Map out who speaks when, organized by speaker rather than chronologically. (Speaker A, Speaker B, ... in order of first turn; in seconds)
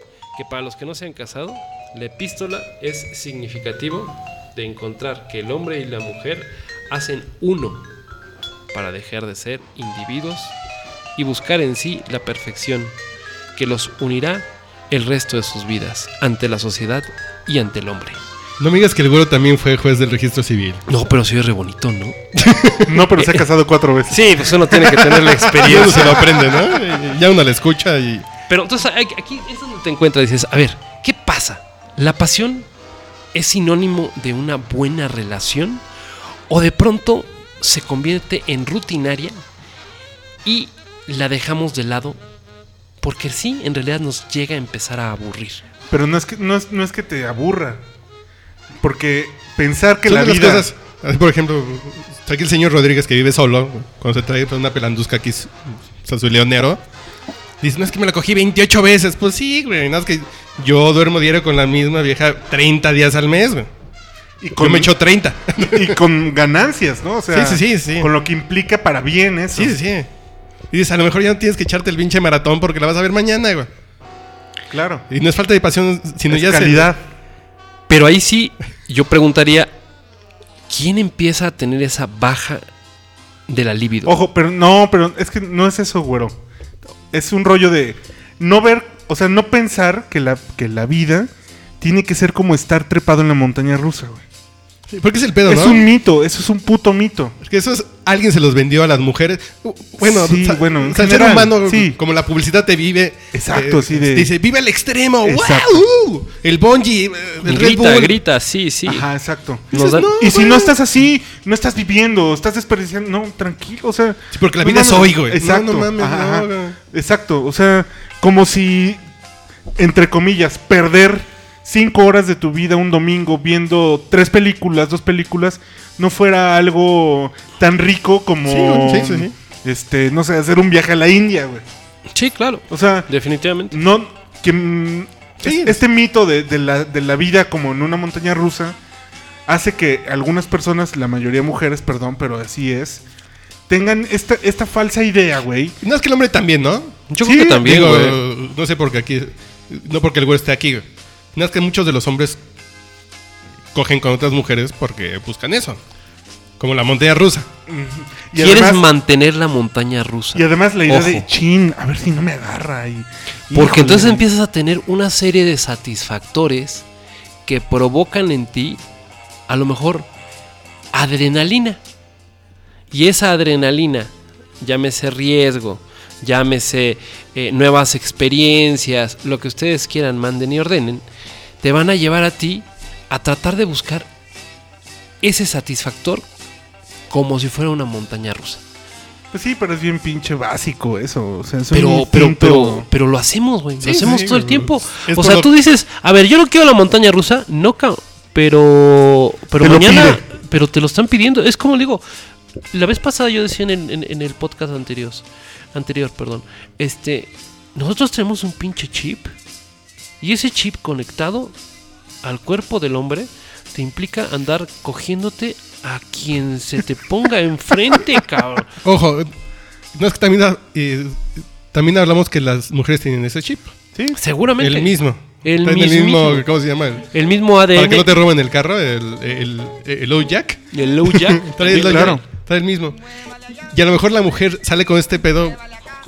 Speaker A: 0.3-7.8, 8.7-10.6, 11.2-12.9, 13.6-18.2, 20.9-23.4, 24.1-26.2, 28.5-32.7, 33.3-35.8, 36.5-39.4, 40.4-42.2, 43.0-45.6, 77.9-79.7, 80.7-82.6, 83.5-84.2, 107.4-109.1, 109.7-110.1, 132.1-133.8, 147.1-148.2, 158.4-161.2, 163.5-166.8, 167.4-168.8, 169.5-170.1, 170.9-171.8, 172.9-181.0, 181.6-184.1, 185.2-186.2, 187.1-188.6, 191.7-202.0, 202.7-209.3, 210.2-211.5, 212.2-218.8, 224.2-226.5, 227.1-228.2, 230.7-232.2
Speaker B: 18.6-20.8, 25.6-28.3, 50.0-56.8, 57.6-63.7, 64.5-66.0, 67.3-68.1, 69.5-70.1, 70.7-73.7, 75.1-76.9, 94.9-95.8, 97.4-108.2, 109.7-110.7, 114.3-116.8, 128.4-129.3, 135.4-135.8, 145.8-147.0, 147.6-152.4, 153.7-155.8, 156.6-157.5, 193.8-195.5, 218.8-219.3, 219.9-223.7, 224.6-227.1, 227.7-230.6, 231.4-233.0, 233.7-235.6
Speaker C: 22.9-26.2, 45.9-47.8, 48.8-50.7, 64.4-64.9, 65.5-69.8, 74.7-75.0, 76.3-77.0, 84.0-86.4, 87.1-94.2, 95.4-97.3, 100.0-102.0, 103.3-104.3, 105.2-105.8, 108.8-119.0, 119.8-131.6, 132.7-133.1, 133.7-138.8, 139.5-143.0, 143.7-145.8, 147.2-147.7, 157.7-158.8, 160.3-164.2, 189.3-192.9, 199.6-200.2, 231.6-232.2